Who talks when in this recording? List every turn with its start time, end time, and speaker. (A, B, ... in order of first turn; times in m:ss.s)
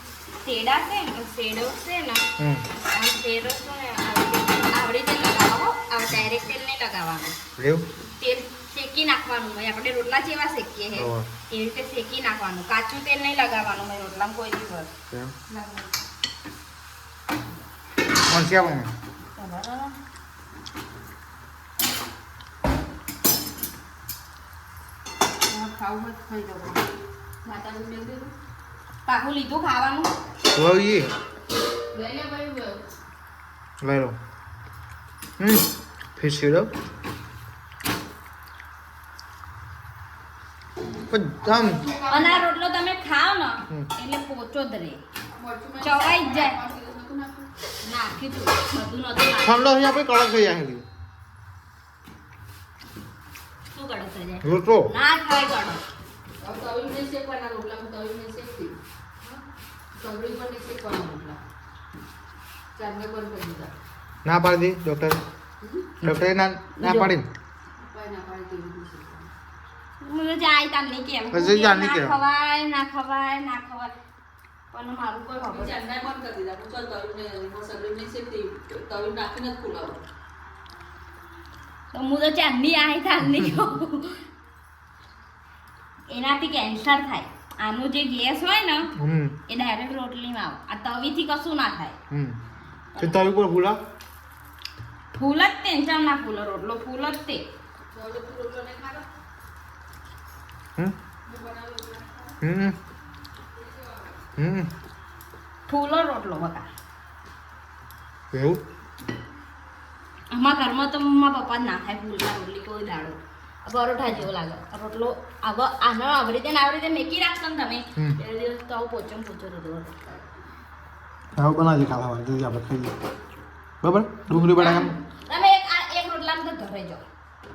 0:00.4-0:02.2 A
0:02.4-0:02.6 B
0:02.9-0:07.4 A
0:07.6-0:07.8 B
0:08.2-0:14.9 A
0:10.9-0:11.3 B
0:15.5-0:15.9 C
0:18.3-0:18.9 B
0:19.4-0:20.0 A
0:25.5-0:26.8 C
0:27.4-0:28.3 C
0:29.0-0:30.1 A
0:30.5-0:31.1 B
0:31.9-0:32.9 C
0:33.8-0:34.2 B
0:35.4-0:36.7 B
0:41.1-0:41.9 B
0:41.4-0:42.5 C
0:42.1-0:45.0 A
0:45.3-0:47.5 C
0:45.8-0:46.6 A
0:47.8-0:49.8 A
0:49.4-0:50.8 B
0:53.7-0:55.8 A
0:54.4-0:54.9 B
0:56.4-0:58.8 C
1:00.0-1:01.4 C
1:02.8-1:03.7 C
1:04.2-1:05.2 B
1:05.6-1:06.0 C
1:06.0-1:07.3 B
1:06.8-1:07.1 A
1:07.8-1:09.3 C
1:10.0-1:13.9 A
1:11.3-1:12.2 B
1:14.7-1:15.8 A
1:15.4-1:20.0 C
1:21.9-1:24.2 A
1:26.1-1:28.9 A
1:29.0-1:29.4 B
1:29.5-1:32.0 A
1:32.1-1:32.4 B
1:32.9-1:33.2 A
1:33.0-1:33.8 B
1:35.1-1:37.4 A
1:37.9-1:39.1 C
1:41.2-1:42.3 C
1:42.4-1:42.8 B
1:44.4-1:44.7 B
1:45.7-1:46.7 A
1:48.3-1:48.6 B
1:50.3-2:00.0 A
2:01.4-2:02.9 B
2:03.8-2:04.9 B
2:04.3-2:07.0 A